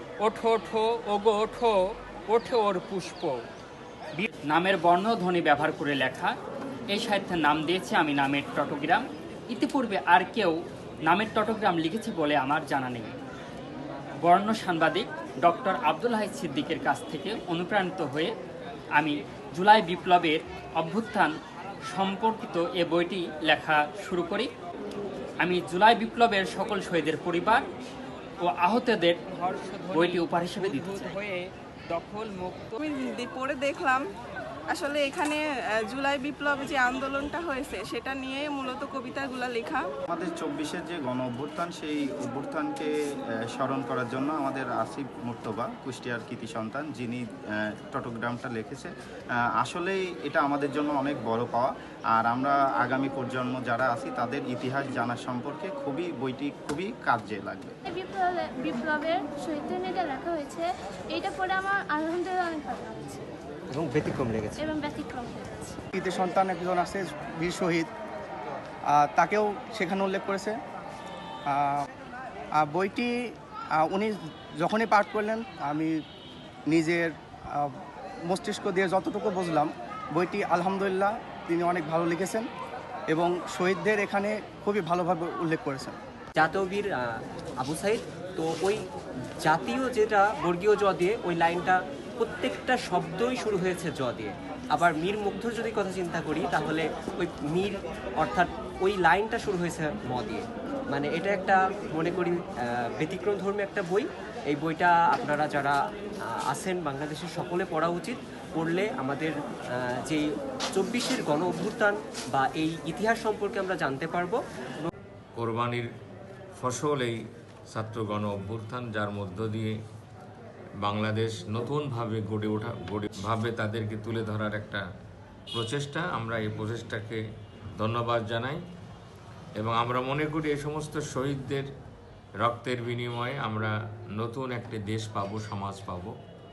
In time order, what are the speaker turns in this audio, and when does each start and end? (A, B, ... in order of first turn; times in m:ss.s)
0:00.2-0:03.4 A
0:04.2-0:06.3 A
0:06.9-0:13.2 A
0:14.2-0:18.3 A
0:19.0-0:21.3 A
0:21.9-0:24.5 A
0:25.4-0:27.6 A
0:28.4-0:32.8 A
0:32.8-0:34.1 B
0:34.7-0:39.9 B
0:40.1-0:42.9 C
0:43.5-0:48.9 C
0:49.6-0:57.8 C
0:57.8-1:03.2 D
1:03.7-1:04.7 E
1:04.6-1:05.8 D
1:05.9-1:07.9 F
1:08.9-1:10.6 F
1:11.5-1:11.9 F
1:12.6-1:13.1 F
1:13.8-1:16.0 F
1:16.7-1:17.7 F
1:18.3-1:22.5 F
1:23.1-1:26.0 F
1:26.4-1:26.9 E
1:27.6-1:28.8 E
1:29.4-1:40.4 E
1:41.0-1:42.3 E
1:43.0-1:44.0 E
1:44.6-1:45.7 E
1:46.5-1:49.3 E
1:50.8-1:54.9 E
1:55.3-1:55.9 G
1:56.6-1:59.7 G
2:00.8-2:04.8 G
2:05.5-2:07.2 G
2:07.8-2:08.6 G
2:09.6-2:11.7 G
2:12.4-2:16.1 G